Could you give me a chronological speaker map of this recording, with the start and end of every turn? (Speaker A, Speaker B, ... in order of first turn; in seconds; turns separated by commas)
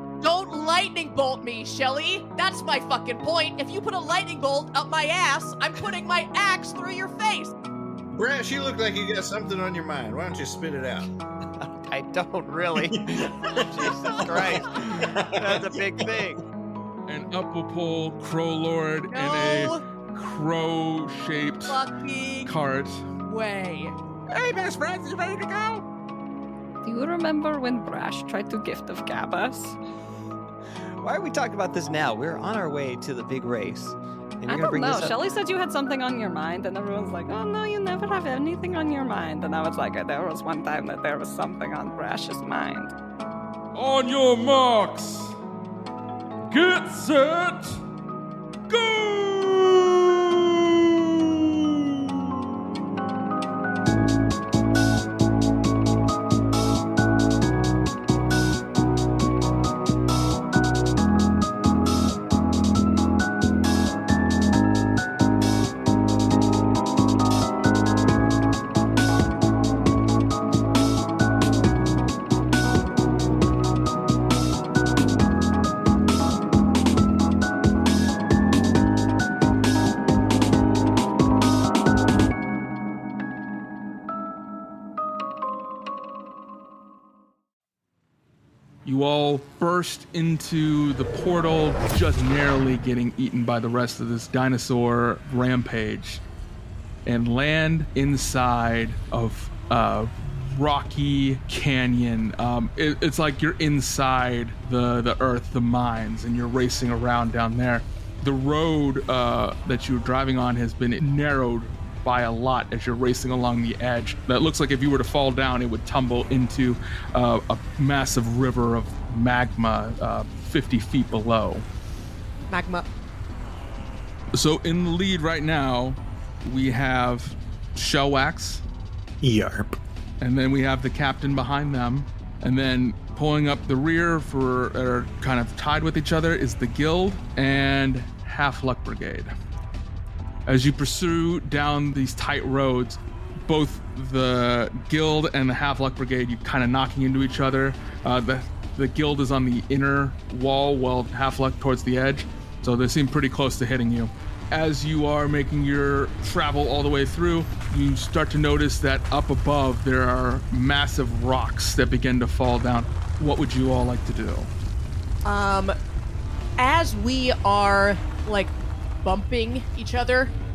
Speaker A: 0.2-7.5, Speaker B: 8.1-11.1, Speaker C: 11.6-16.4, Speaker B: 12.8-16.2, Speaker D: 17.1-21.8, Speaker A: 19.1-19.8, Speaker A: 21.7-22.5, Speaker D: 22.4-23.1, Speaker A: 23.2-23.9, Speaker D: 24.3-25.8, Speaker E: 26.8-29.8, Speaker C: 31.0-35.1, Speaker E: 34.5-42.9, Speaker D: 43.7-45.3, Speaker D: 46.5-47.8, Speaker D: 48.7-52.2, Speaker D: 88.8-96.2, Speaker D: 97.0-121.6, Speaker A: 122.5-122.8, Speaker D: 124.3-128.6, Speaker B: 129.2-129.7, Speaker D: 130.2-139.3, Speaker D: 140.5-164.5, Speaker A: 165.2-165.8, Speaker A: 166.6-170.3